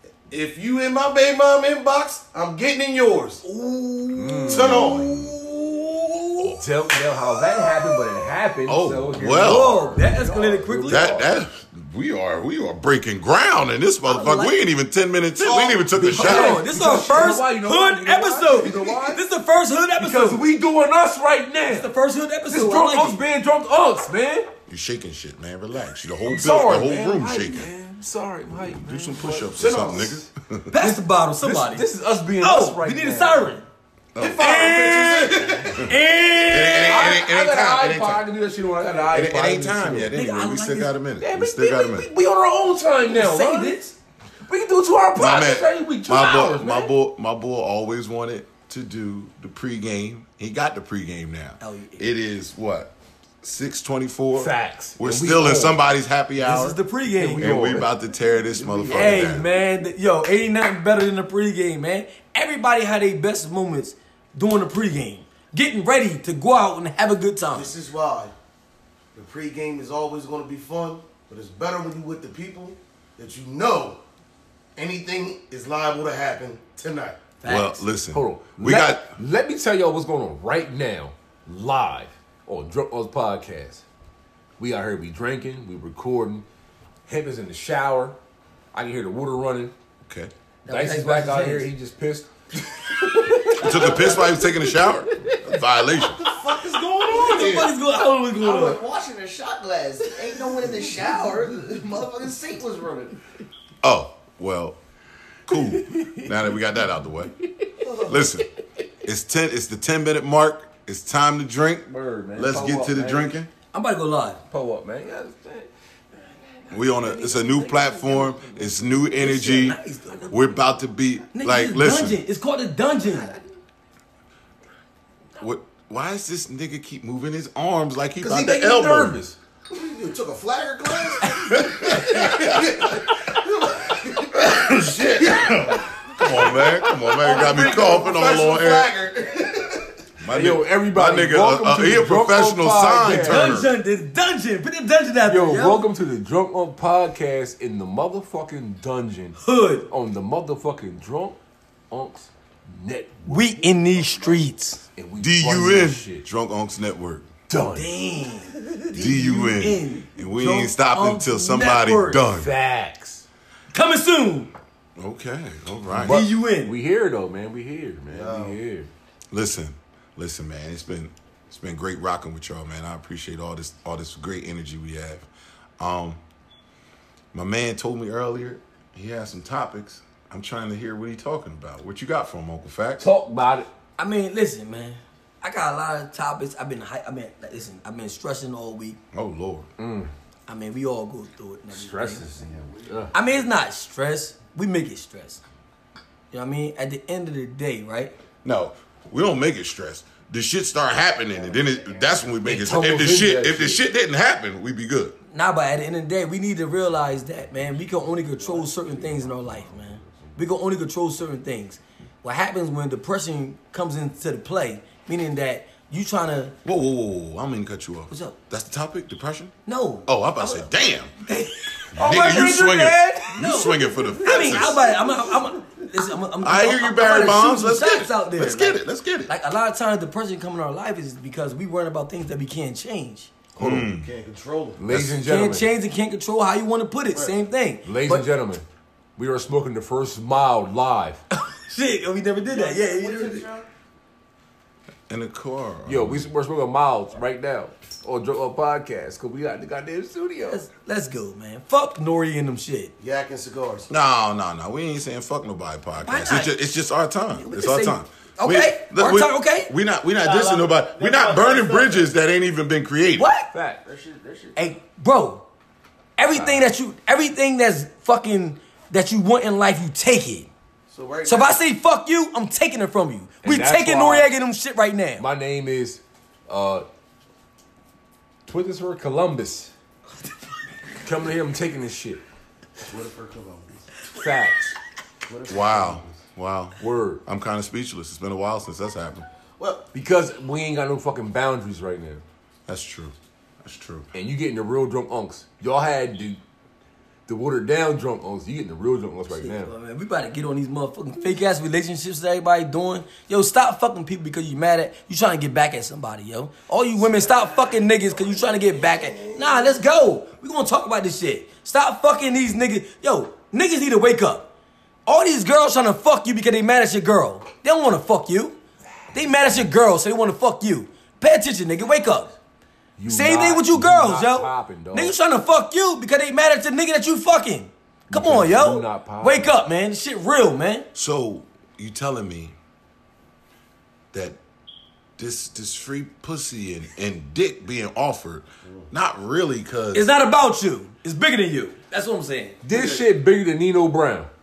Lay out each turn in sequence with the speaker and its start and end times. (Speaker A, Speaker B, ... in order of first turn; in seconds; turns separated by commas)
Speaker A: 0.3-3.4, Speaker B: 3.4-6.6, Speaker C: 4.1-4.9, Speaker A: 4.5-5.1, Speaker D: 4.6-5.3, Speaker C: 6.4-11.3, Speaker D: 8.6-9.8, Speaker B: 9.4-11.2, Speaker D: 10.9-16.6, Speaker B: 14.1-14.5, Speaker A: 15.4-15.8, Speaker C: 15.5-19.2, Speaker B: 16.1-20.4, Speaker C: 20.0-21.9, Speaker B: 21.7-23.2, Speaker C: 22.5-24.5, Speaker D: 24.7-27.7, Speaker C: 26.2-30.2, Speaker D: 28.5-30.7, Speaker A: 29.2-30.1, Speaker B: 30.7-33.6, Speaker C: 30.7-33.6, Speaker D: 34.1-34.5, Speaker A: 34.2-35.8, Speaker C: 34.2-35.8, Speaker B: 34.2-37.2, Speaker D: 36.5-38.2, Speaker C: 36.8-40.1, Speaker D: 39.1-42.1, Speaker B: 40.1-40.9, Speaker C: 41.2-43.8, Speaker B: 43.0-43.9, Speaker C: 44.5-46.9, Speaker D: 45.1-56.8, Speaker B: 51.6-52.0, Speaker C: 54.3-55.8, Speaker B: 56.4-57.5, Speaker C: 57.1-57.9, Speaker D: 57.4-59.5, Speaker C: 58.5-59.5, Speaker B: 58.9-67.7, Speaker A: 67.5-68.3, Speaker A: 69.1-74.0, Speaker A: 74.8-77.2, Speaker B: 77.4-77.8, Speaker D: 77.4-79.1, Speaker C: 78.1-83.8, Speaker C: 84.6-86.4, Speaker C: 87.1-88.2, Speaker C: 88.7-89.7, Speaker B: 90.6-91.7, Speaker C: 90.7-95.4, Speaker D: 93.6-96.2, Speaker A: 96.2-97.7, Speaker B: 97.1-98.8, Speaker E: 98.4-103.2, Speaker D: 103.8-104.8, Speaker D: 105.5-107.3, Speaker C: 105.5-106.7, Speaker C: 107.4-108.4, Speaker E: 107.8-108.2, Speaker D: 108.0-108.5, Speaker D: 109.0-113.5, Speaker C: 111.8-113.3, Speaker B: 113.7-114.4, Speaker C: 114.5-120.5, Speaker D: 116.7-122.2, Speaker B: 119.2-120.4, Speaker B: 121.3-123.3, Speaker D: 125.4-129.2, Speaker C: 128.2-129.4, Speaker A: 129.7-139.9, Speaker D: 131.2-133.0, Speaker D: 134.3-138.9, Speaker D: 140.2-143.7, Speaker C: 140.3-143.6, Speaker B: 143.2-145.8, Speaker C: 145.2-151.4, Speaker B: 149.4-149.9, Speaker C: 151.9-154.1, Speaker B: 153.3-154.8, Speaker C: 154.9-156.2, Speaker D: 155.2-157.3, Speaker C: 157.5-157.9, Speaker B: 157.7-162.2, Speaker D: 158.9-162.5, Speaker C: 162.2-163.2, Speaker B: 163.7-164.5, Speaker D: 165.0-166.2, Speaker C: 165.9-168.9, Speaker B: 166.1-166.7, Speaker A: 168.1-168.6, Speaker D: 169.3-175.3, Speaker D: 175.8-176.2, Speaker D: 177.3-183.1, Speaker C: 183.0-183.7, Speaker B: 184.0-189.0, Speaker D: 189.1-189.7, Speaker C: 189.8-190.1, Speaker B: 190.5-192.2, Speaker C: 191.7-193.1, Speaker E: 192.2-193.1, Speaker B: 193.1-195.4, Speaker B: 196.3-198.1, Speaker D: 198.4-205.2, Speaker E: 201.3-202.2, Speaker C: 202.4-203.8, Speaker B: 205.3-216.5, Speaker E: 208.2-209.3, Speaker D: 216.6-219.5, Speaker B: 218.1-218.4, Speaker B: 219.7-220.7, Speaker D: 220.1-221.2, Speaker B: 221.2-222.6, Speaker C: 221.9-223.4, Speaker D: 221.9-224.9, Speaker B: 223.3-233.3, Speaker C: 224.0-224.7, Speaker D: 226.4-229.3, Speaker C: 233.5-233.9, Speaker D: 233.6-234.1, Speaker A: 233.8-234.8, Speaker C: 234.8-235.7, Speaker D: 234.9-235.2, Speaker B: 235.2-238.3, Speaker C: 237.8-238.6, Speaker C: 239.2-241.2, Speaker B: 241.3-243.5, Speaker A: 242.5-243.7, Speaker D: 245.1-246.3, Speaker C: 245.8-250.6, Speaker B: 250.5-252.9, Speaker A: 253.0-253.9, Speaker D: 253.9-263.3, Speaker B: 256.0-256.6, Speaker B: 257.3-259.7, Speaker E: 260.2-262.1, Speaker B: 263.1-263.5, Speaker C: 263.5-263.8, Speaker E: 263.8-264.6, Speaker B: 264.6-265.4, Speaker B: 266.2-270.5, Speaker C: 266.3-266.7, Speaker A: 270.9-271.6, Speaker B: 271.2-275.2, Speaker C: 273.4-274.3, Speaker C: 275.2-276.9, Speaker C: 278.4-279.7, Speaker C: 281.0-282.2, Speaker A: 282.9-283.9, Speaker C: 284.1-284.8, Speaker A: 285.3-286.0, Speaker D: 285.5-289.3, Speaker C: 286.8-287.2, Speaker A: 289.6-289.8, Speaker C: 289.9-292.2, Speaker D: 292.7-294.1, Speaker C: 294.1-296.4, Speaker C: 297.3-299.7, Speaker B: 299.3-314.5, Speaker A: 308.7-309.7, Speaker B: 315.1-318.6, Speaker B: 319.1-322.4, Speaker C: 323.0-325.1, Speaker B: 323.1-330.9, Speaker C: 328.1-329.6, Speaker D: 330.9-332.5, Speaker D: 334.1-334.4, Speaker D: 335.2-340.1, Speaker B: 339.9-342.6, Speaker C: 342.6-344.3, Speaker A: 342.7-343.0